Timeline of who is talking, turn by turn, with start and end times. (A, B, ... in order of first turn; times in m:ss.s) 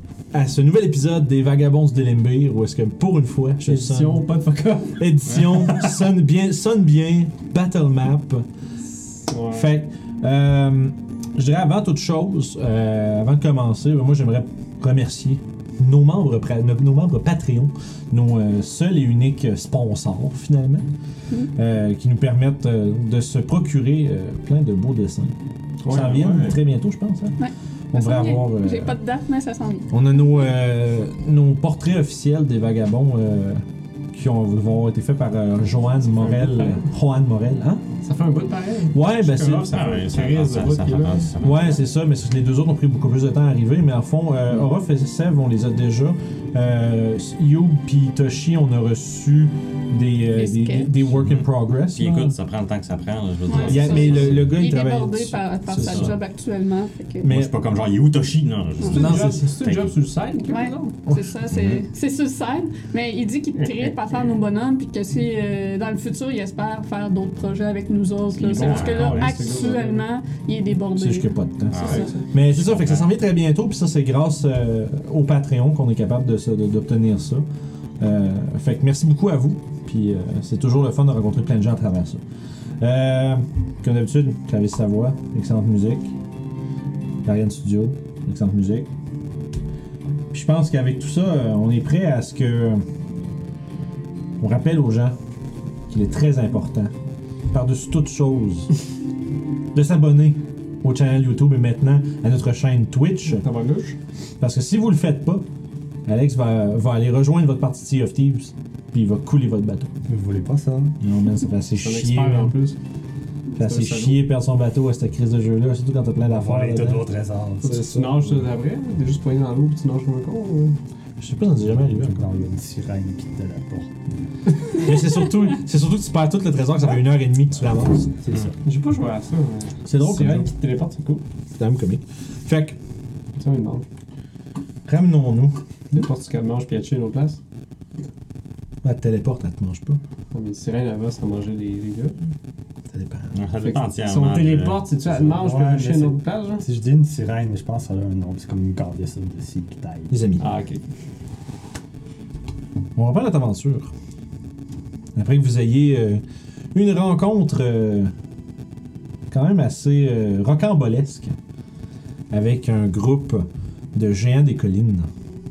0:00.3-0:04.3 A
0:03.6-0:05.1 B
0:05.0-0:08.4 A
0:09.2-0:09.7 B
0:09.5-0:20.9 A
0:21.5-0:25.4 A
0:25.8-0:26.6 B
0:25.9-0:27.4 A
0:25.9-0:26.5 C
0:27.4-0:29.9 D
0:27.9-0:29.0 A
0:29.9-0:37.8 A
0:36.0-0:36.9 B
0:38.0-0:41.4 B
0:38.9-0:39.8 A
0:39.7-0:41.8 C
0:41.4-0:52.4 A
0:50.3-0:51.0 D
0:51.2-0:54.4 C
0:53.5-0:57.3 D
0:53.5-0:54.4 B
0:53.6-0:56.2 A
0:55.7-0:56.1 C
0:57.2-0:57.5 A
0:57.2-0:59.9 C
0:58.8-0:59.1 D
0:58.9-1:01.0 B
0:59.0-0:59.4 A
1:00.5-1:11.3 D
1:01.1-1:01.3 A
1:01.5-1:01.8 C
1:03.6-1:04.3 B
1:08.3-1:10.0 B
1:08.4-1:09.4 C
1:11.0-1:17.4 A
1:11.7-1:13.1 C
1:11.7-1:12.3 B
1:18.0-1:22.2 A
1:22.8-1:26.1 A
1:27.2-1:28.9 A
1:30.3-1:32.8 A
1:34.4-1:35.2 A
1:35.9-1:36.9 A
1:37.5-1:38.7 A
1:39.7-1:43.4 A
1:43.2-1:44.0 B
1:44.4-1:45.4 A
1:46.0-1:49.9 A
1:50.1-1:51.0 E
1:51.0-1:52.6 A
1:51.8-1:52.8 B
1:53.6-1:54.2 B
1:53.6-1:57.0 A
1:56.2-1:58.4 E
1:57.6-2:00.8 B
2:01.2-2:02.2 A
2:01.6-2:04.1 E
2:04.7-2:08.1 A
2:08.2-2:08.6 E
2:08.6-2:11.2 B
2:09.8-2:10.5 A
2:11.6-2:12.8 A
2:13.4-2:13.8 B
2:14.8-2:15.6 A
2:15.9-2:17.4 B
2:18.8-2:20.0 A
2:20.3-2:22.2 B
2:22.9-2:23.3 A
2:23.3-2:24.8 C
2:23.6-2:26.6 B
2:25.1-2:30.2 E
2:30.1-2:30.4 A
2:30.4-2:30.8 B
2:32.9-2:33.9 A
2:35.1-2:36.2 A
2:36.7-2:38.1 A
2:39.3-2:41.3 A
2:42.3-2:45.1 A